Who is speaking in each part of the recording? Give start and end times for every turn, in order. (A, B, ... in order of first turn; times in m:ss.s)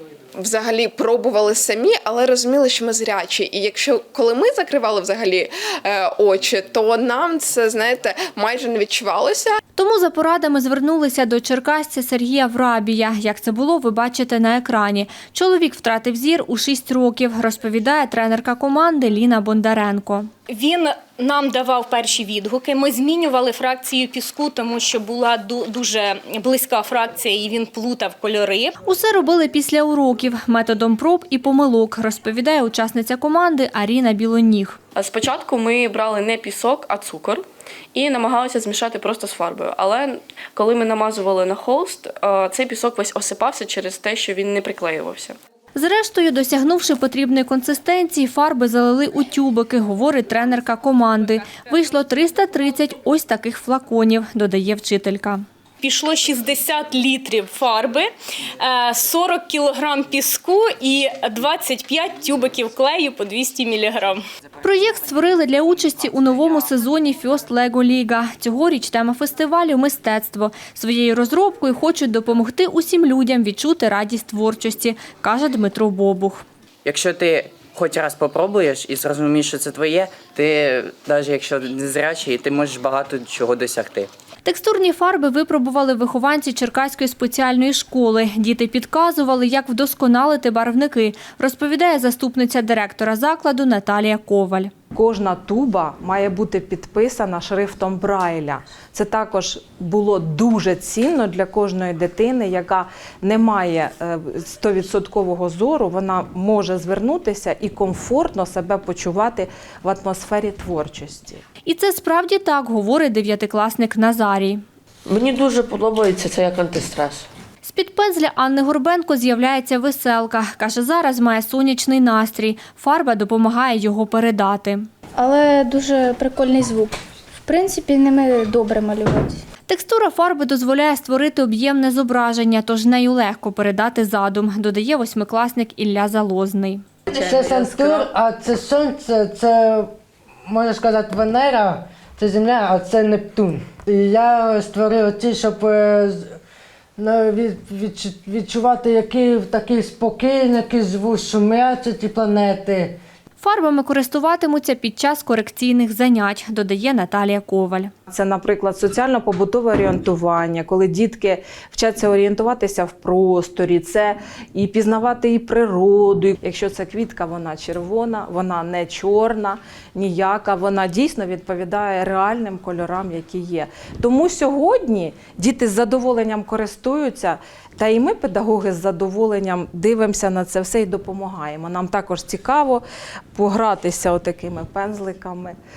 0:00.4-0:09.6 A
0:09.8-0:20.3 B
0:20.5-0:28.8 C
0:28.8-0:34.8 B
0:35.0-0:37.4 D
0:37.9-0:45.4 D
0:45.8-0:55.4 B
0:55.8-1:04.2 C
1:04.6-1:16.4 B
1:16.8-1:24.1 E
1:24.4-1:34.7 B
1:34.9-1:51.4 F
1:51.6-1:54.6 B
1:55.1-1:57.2 G
1:57.6-2:04.9 B
2:05.2-2:09.4 H
2:09.7-2:16.8 B
2:17.1-2:19.9 I
2:20.5-2:26.3 I
2:27.0-2:33.0 I
2:33.4-2:37.9 B
2:38.1-3:02.8 F
3:03.4-3:05.6 F